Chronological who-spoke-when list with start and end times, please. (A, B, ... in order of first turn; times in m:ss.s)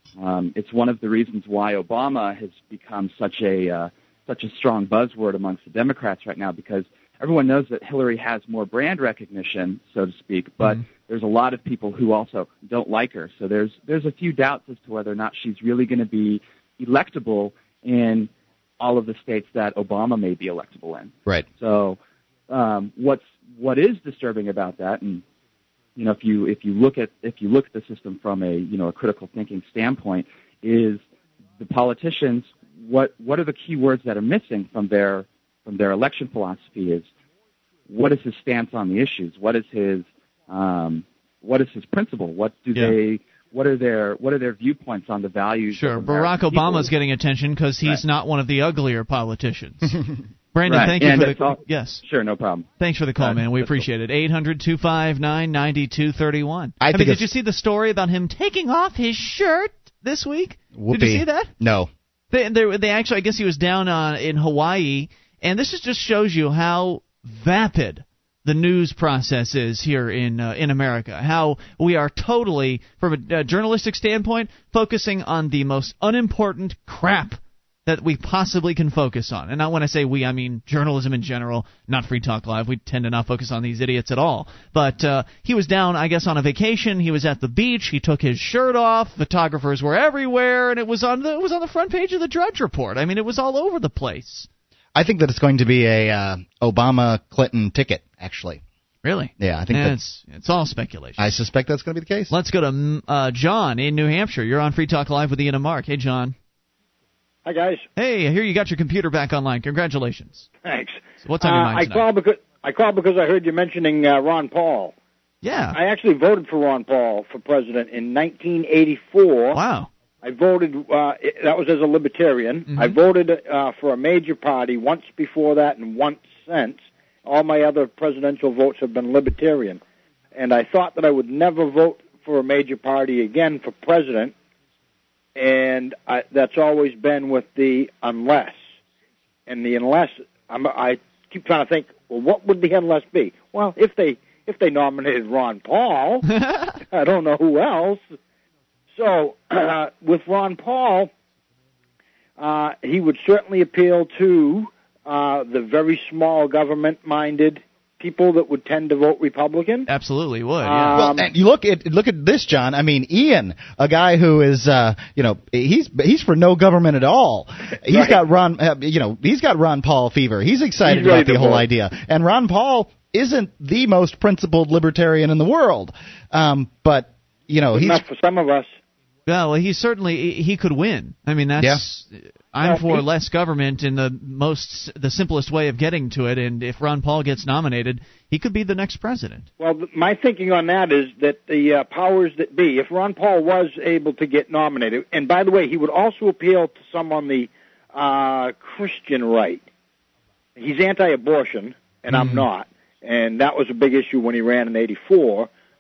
0:00.2-0:22.0 A
0:22.5-0:25.2 A
0:26.0-0:31.0 A
0:31.6-0:37.1 A
0:37.9-0:46.9 A
0:45.7-0:50.0 B
0:50.5-0:52.0 B
0:50.6-0:52.7 A
0:52.8-1:01.5 B
0:53.2-0:53.8 A
0:56.8-0:57.3 C
1:00.7-1:01.9 C
1:02.3-1:34.5 B
1:35.0-1:38.6 C
1:39.0-1:41.3 B
1:39.4-1:40.0 C
1:41.2-1:42.3 C
1:42.3-1:46.4 B
1:47.5-1:47.9 D
1:48.0-1:50.5 B
1:50.6-1:55.0 D
1:51.2-1:52.1 B
1:55.4-1:55.8 B
1:55.7-1:59.6 D
1:59.5-1:59.9 B
2:00.2-2:09.8 D
2:02.7-2:03.0 B
2:10.4-2:14.3 D
2:15.4-2:18.6 D
2:19.5-2:26.4 D
2:26.4-2:26.7 B
2:26.9-2:28.0 D
2:29.0-2:31.1 D
2:32.4-2:39.9 D
2:39.9-2:41.1 B
2:40.6-2:41.3 D
2:41.0-2:58.0 C
2:47.9-2:48.2 D
2:50.8-2:51.6 D
2:57.7-2:58.8 D
2:59.3-3:09.5 B
3:01.6-3:01.8 C
3:02.6-3:03.0 D
3:09.6-3:19.6 D
3:20.6-3:25.5 D
3:22.1-3:22.5 B